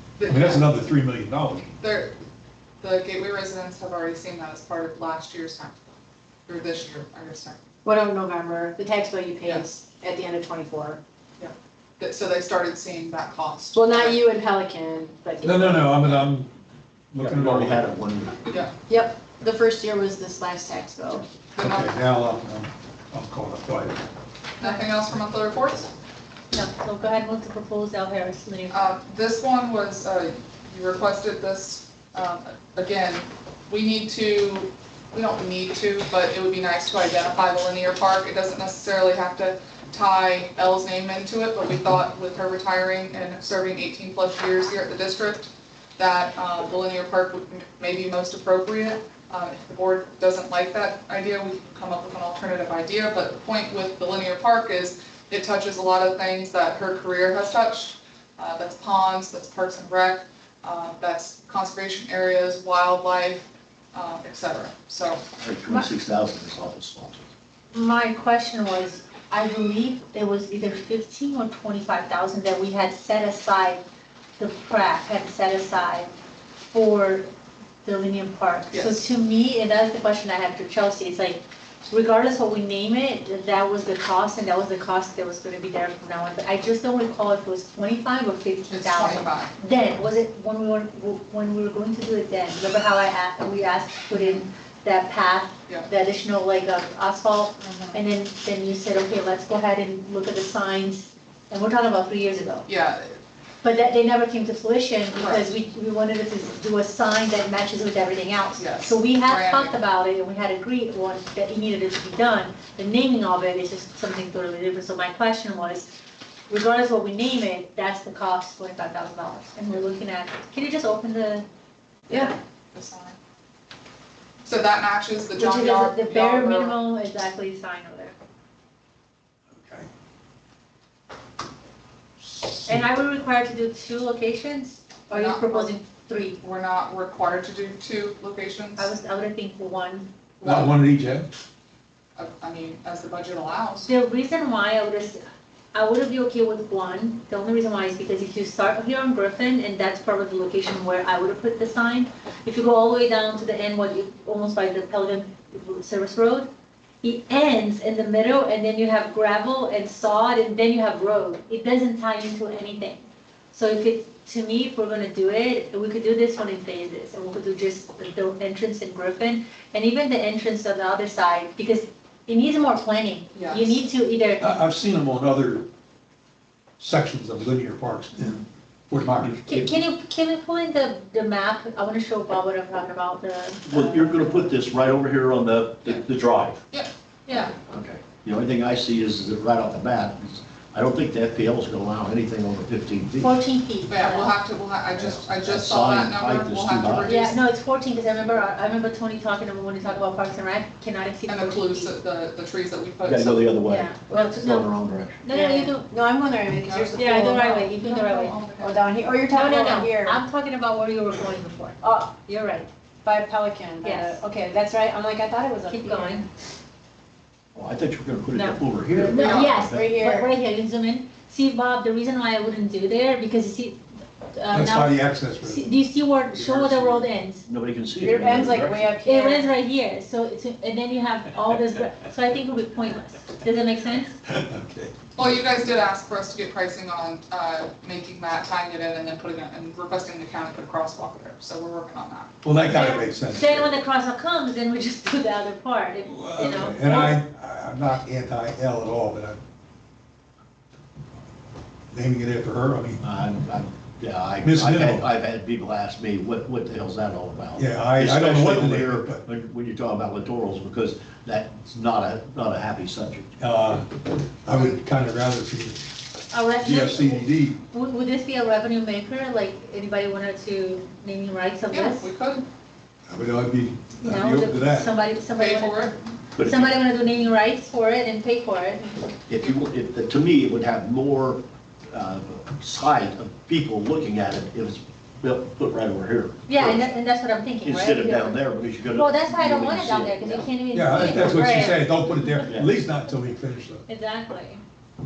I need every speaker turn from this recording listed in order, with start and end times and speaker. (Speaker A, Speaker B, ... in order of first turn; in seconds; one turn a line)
Speaker A: 0.2-0.7
Speaker B: 0.2-1.7
Speaker A: 1.8-2.1
Speaker A: 2.8-5.8
Speaker A: 6.5-7.6
Speaker C: 7.8-11.0
Speaker A: 11.4-14.2
Speaker C: 13.7-16.0
Speaker B: 15.4-16.5
Speaker B: 17.1-17.9
Speaker D: 17.2-18.5
Speaker C: 18.9-21.2
Speaker A: 21.5-21.9
Speaker B: 21.6-24.0
Speaker A: 24.6-25.9
Speaker E: 26.5-28.9
Speaker A: 28.7-65.2
Speaker D: 65.4-67.3
Speaker E: 67.7-73.8
Speaker E: 74.4-76.1
Speaker E: 76.7-77.2
Speaker E: 77.8-102.7
Speaker A: 78.7-79.0
Speaker A: 88.7-89.5
Speaker A: 94.1-94.4
Speaker A: 97.6-98.0
Speaker A: 102.7-103.2
Speaker E: 103.6-115.9
Speaker A: 105.2-105.4
Speaker A: 108.6-109.7
Speaker E: 116.5-121.5
Speaker A: 122.1-123.2
Speaker A: 124.4-126.8
Speaker E: 125.3-128.1
Speaker B: 129.6-129.9
Speaker E: 132.6-136.4
Speaker A: 135.1-135.7
Speaker A: 136.4-138.9
Speaker E: 138.8-140.1
Speaker A: 140.4-140.8
Speaker B: 140.4-141.3
Speaker A: 142.2-143.9
Speaker E: 143.8-145.2
Speaker E: 145.7-156.5
Speaker E: 157.0-174.5
Speaker A: 173.3-173.8
Speaker B: 174.4-175.6
Speaker B: 176.8-179.5
Speaker E: 179.4-184.5
Speaker D: 183.7-186.6
Speaker A: 186.7-187.5
Speaker E: 187.3-187.5
Speaker D: 187.7-193.3
Speaker E: 193.2-194.3
Speaker A: 193.9-197.4
Speaker D: 194.9-197.1
Speaker E: 197.1-201.9
Speaker A: 201.3-203.6
Speaker D: 203.0-205.2
Speaker E: 203.7-204.7
Speaker E: 205.2-205.9
Speaker C: 205.3-207.7
Speaker A: 206.7-208.9
Speaker E: 206.9-208.5
Speaker C: 208.6-210.2
Speaker E: 209.3-212.7
Speaker C: 211.8-212.1
Speaker C: 213.0-216.2
Speaker E: 213.8-214.2
Speaker E: 215.7-216.3
Speaker D: 217.5-219.9
Speaker E: 218.3-227.4
Speaker C: 219.1-220.3
Speaker A: 219.2-219.5
Speaker B: 224.5-225.7
Speaker B: 226.3-227.0
Speaker D: 227.4-228.8
Speaker C: 228.0-229.5
Speaker E: 229.0-234.2
Speaker B: 234.2-234.9
Speaker A: 235.2-242.3
Speaker B: 242.4-243.7
Speaker E: 242.7-247.2
Speaker B: 246.1-249.4
Speaker B: 251.9-253.0
Speaker D: 253.0-263.3
Speaker B: 254.4-255.1
Speaker B: 257.5-259.2
Speaker B: 263.4-265.8
Speaker E: 266.3-272.1
Speaker B: 266.6-267.6
Speaker A: 271.7-272.4
Speaker B: 273.1-274.9
Speaker E: 274.0-279.1
Speaker A: 275.4-276.0
Speaker D: 276.4-276.7
Speaker D: 279.3-286.8
Speaker E: 286.5-292.5
Speaker D: 287.6-290.5
Speaker B: 290.7-293.9
Speaker D: 291.1-291.4
Speaker E: 293.9-294.6